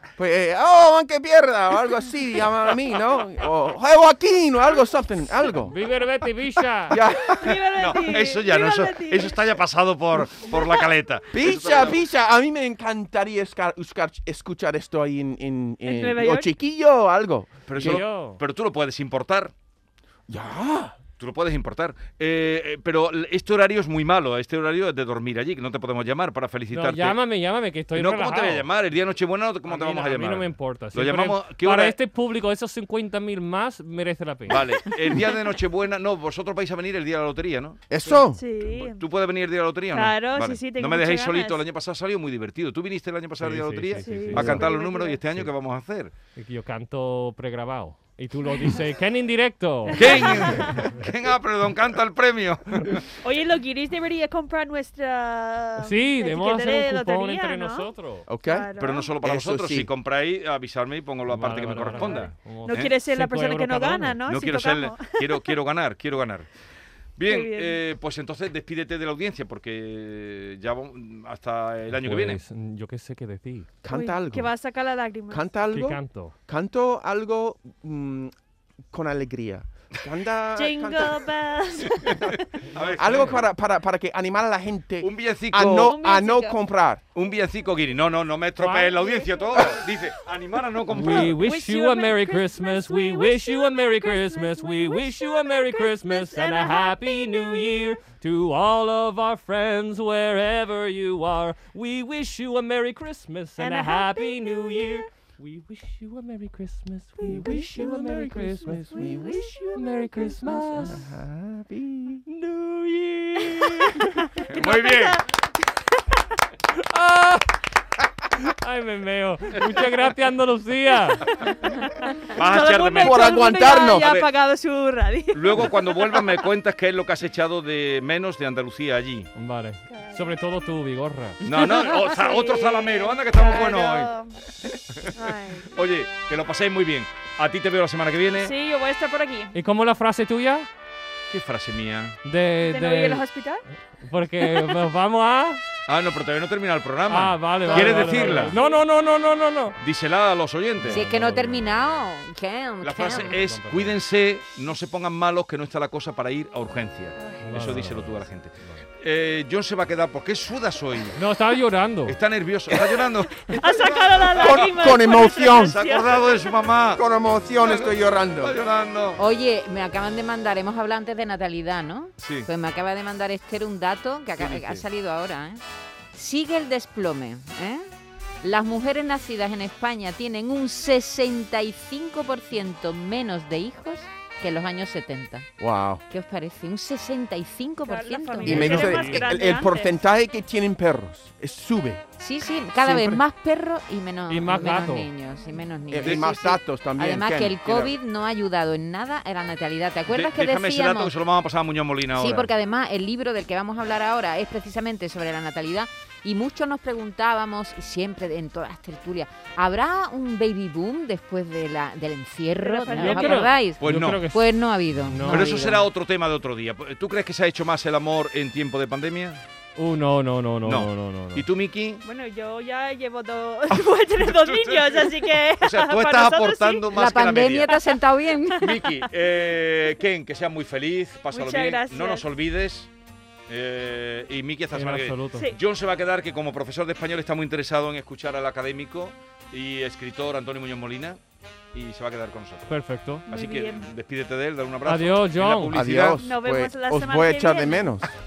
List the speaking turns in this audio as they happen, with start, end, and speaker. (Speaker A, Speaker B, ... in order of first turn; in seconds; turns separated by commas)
Speaker A: 0.2-5.8, Speaker B: 5.7-7.0, Speaker A: 6.9-7.6, Speaker C: 7.2-9.6, Speaker D: 7.5-12.0, Speaker C: 10.4-10.9, Speaker A: 11.3-18.0, Speaker C: 15.8-16.5, Speaker D: 17.7-19.5, Speaker B: 17.8-18.4, Speaker A: 20.3-21.0, Speaker D: 21.2-27.2, Speaker B: 26.7-28.7, Speaker D: 27.9-32.0, Speaker B: 29.7-35.0, Speaker D: 34.5-37.9, Speaker A: 37.9-38.4, Speaker C: 38.3-39.0, Speaker D: 38.7-46.1, Speaker C: 39.9-41.6, Speaker B: 43.4-44.6, Speaker C: 44.0-45.2, Speaker A: 44.4-44.6, Speaker B: 46.4-51.0, Speaker D: 49.9-53.1, Speaker C: 49.9-50.9, Speaker C: 53.2-57.9, Speaker B: 55.8-58.3, Speaker A: 58.3-58.7, Speaker C: 58.4-59.1, Speaker D: 58.8-62.9, Speaker A: 59.2-59.9, Speaker B: 61.3-64.2, Speaker C: 61.9-65.5, Speaker D: 64.3-66.5, Speaker D: 67.2-72.4, Speaker C: 67.3-67.8, Speaker B: 71.9-73.7, Speaker A: 73.8-74.5, Speaker C: 73.9-75.5, Speaker A: 75.3-78.3, Speaker B: 75.7-76.3, Speaker A: 78.9-81.3, Speaker C: 80.6-82.3, Speaker D: 82.0-83.3, Speaker B: 82.7-83.4, Speaker A: 83.0-87.0, Speaker D: 85.0-86.0, Speaker C: 85.8-86.6, Speaker D: 87.2-91.4, Speaker B: 88.6-89.1, Speaker C: 89.0-90.1, Speaker B: 90.9-111.1, Speaker C: 91.1-98.0, Speaker C: 103.6-105.0, Speaker A: 107.2-112.3, Speaker C: 108.9-109.7, Speaker B: 112.3-114.2, Speaker C: 114.3-115.2, Speaker D: 114.5-115.2, Speaker B: 116.7-117.5, Speaker B: 118.3-121.5, Speaker C: 122.0-126.4, Speaker D: 122.3-123.4, Speaker A: 123.0-124.2, Speaker D: 124.0-124.3, Speaker D: 125.3-129.3, Speaker B: 129.3-131.4, Speaker C: 129.9-130.4, Speaker D: 131.4-134.1, Speaker C: 131.5-134.4, Speaker D: 134.6-138.5, Speaker C: 135.1-135.8, Speaker C: 138.4-139.6, Speaker B: 139.5-140.7, Speaker D: 141.3-142.2, Speaker B: 142.2-143.2, Speaker C: 142.6-143.6, Speaker B: 144.0-145.6, Speaker D: 145.9-148.6, Speaker B: 147.1-149.8, Speaker C: 147.7-148.8, Speaker E: 147.7-148.4, Speaker D: 149.8-151.1, Speaker B: 150.8-151.8, Speaker E: 150.9-153.4, Speaker D: 152.8-161.2, Speaker B: 153.3-154.0, Speaker C: 157.2-157.8, Speaker B: 157.4-158.8, Speaker B: 161.2-162.2, Speaker D: 162.1-167.0, Speaker C: 163.4-166.6, Speaker A: 164.4-165.8, Speaker A: 167.0-168.6, Speaker D: 167.6-169.2, Speaker E: 169.2-175.6, Speaker D: 172.2-172.5, Speaker D: 174.4-174.8, Speaker E: 176.1-177.9, Speaker E: 178.4-185.5, Speaker A: 185.6-186.0, Speaker E: 186.1-189.0, Speaker C: 187.8-189.9, Speaker A: 188.4-192.0, Speaker B: 188.5-189.2, Speaker E: 192.2-201.1, Speaker A: 192.8-193.2, Speaker B: 194.3-195.1, Speaker A: 195.9-197.9, Speaker D: 196.0-196.3, Speaker D: 200.1-202.5, Speaker E: 202.1-215.9, Speaker C: 212.6-213.5, Speaker B: 212.9-214.5, Speaker D: 213.8-214.3, Speaker B: 215.1-215.7, Speaker D: 215.3-219.4, Speaker B: 219.8-221.5, Speaker D: 220.7-222.0, Speaker C: 222.0-226.9, Speaker D: 224.2-227.8, Speaker E: 226.9-228.8, Speaker C: 227.6-229.1, Speaker D: 228.6-232.9, Speaker C: 231.3-232.2, Speaker D: 233.5-241.2, Speaker B: 234.7-235.5, Speaker D: 241.7-242.7, Speaker B: 242.7-243.3, Speaker C: 243.3-243.9, Speaker D: 243.3-246.2, Speaker B: 244.8-245.8, Speaker A: 245.7-248.1, Speaker C: 246.2-247.9